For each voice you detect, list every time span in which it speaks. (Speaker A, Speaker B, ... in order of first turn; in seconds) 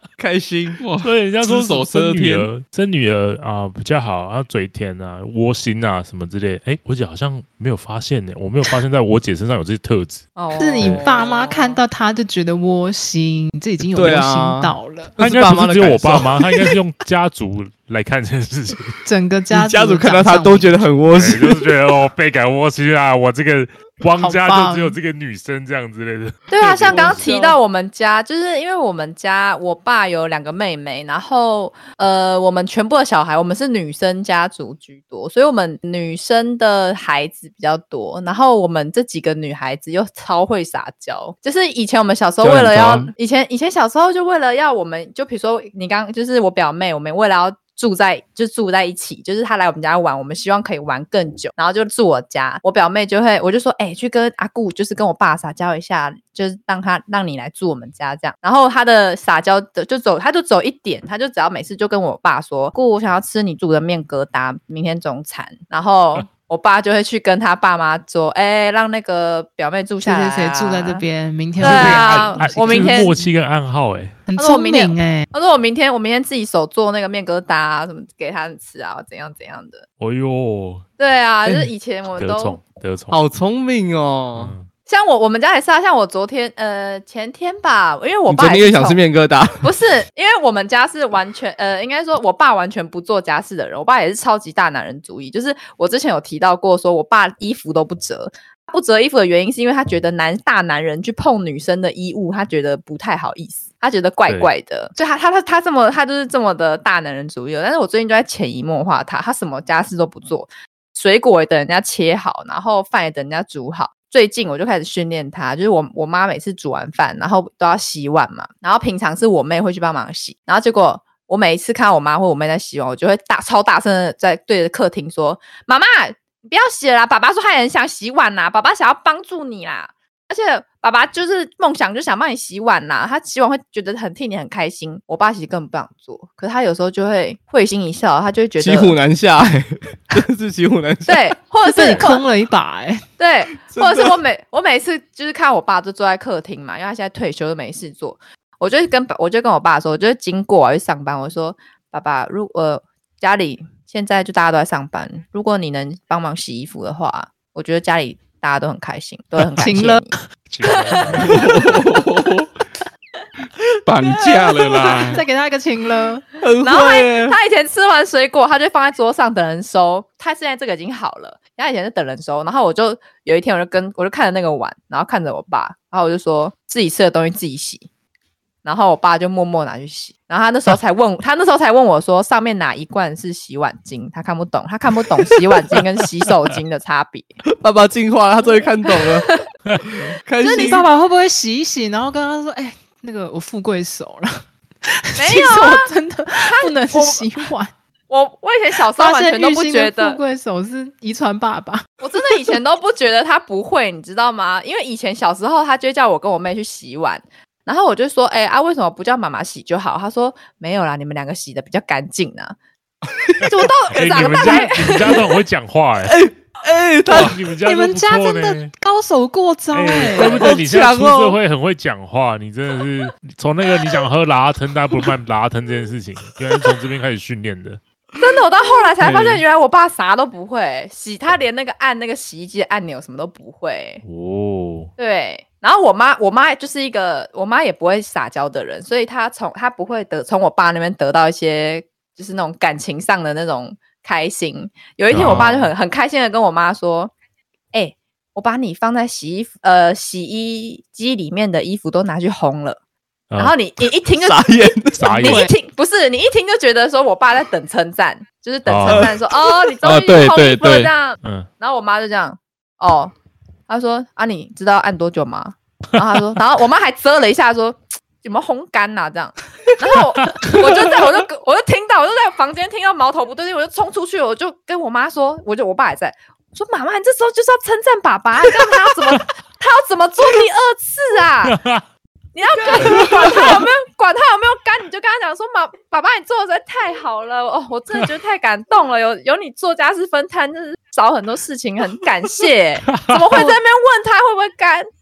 Speaker A: 0.2-0.8, 13.9-16.8, 19.5-21.8, 26.6-27.6, 83.1-84.6, 88.3-89.7, 138.6-141.4, 143.6-144.2, 161.3-162.0, 166.4-167.4, 187.4-189.3, 189.8-190.9, 213.1-214.6, 216.0-217.4, 220.1-221.4, 229.0-229.4, 245.1-245.6, 254.1-255.1, 258.9-259.2
Speaker B: 0.8-2.5, 42.4-43.1, 161.3-162.4, 163.9-165.2, 259.8-260.9
Speaker C: 1.0-10.3, 15.2-19.0, 21.1-27.3, 71.6-74.2, 80.0-80.9, 82.2-83.2, 84.3-84.7, 160.5-161.4, 213.9-216.2, 217.1-218.7, 219.7-227.8, 234.0-234.9, 245.1-245.7, 255.0-255.5, 258.7-259.1, 261.2-261.5, 281.4-281.8, 282.8-283.3, 292.9-293.5
Speaker D: 10.4-11.8, 26.5-71.0, 71.6-73.2, 74.4-79.8, 81.0-82.6, 84.9-89.0, 89.6-139.0, 141.1-142.2, 143.2-161.3, 164.4-164.9, 166.6-177.9, 178.7-187.3, 188.9-189.4, 190.4-190.8, 195.2-197.3, 198.1-200.2, 202.0-212.6, 213.4-215.3, 228.2-234.0, 235.0-247.1, 247.7-252.8, 253.4-263.1, 263.7-281.6, 282.3-294.9
Speaker E: 10.6-15.2, 19.1-20.9, 24.2-25.0, 70.0-73.3, 74.3-75.3, 141.7-143.0, 159.6-160.2, 165.1-166.2, 190.4-197.7, 198.7-202.6, 217.6-220.5, 255.2-255.5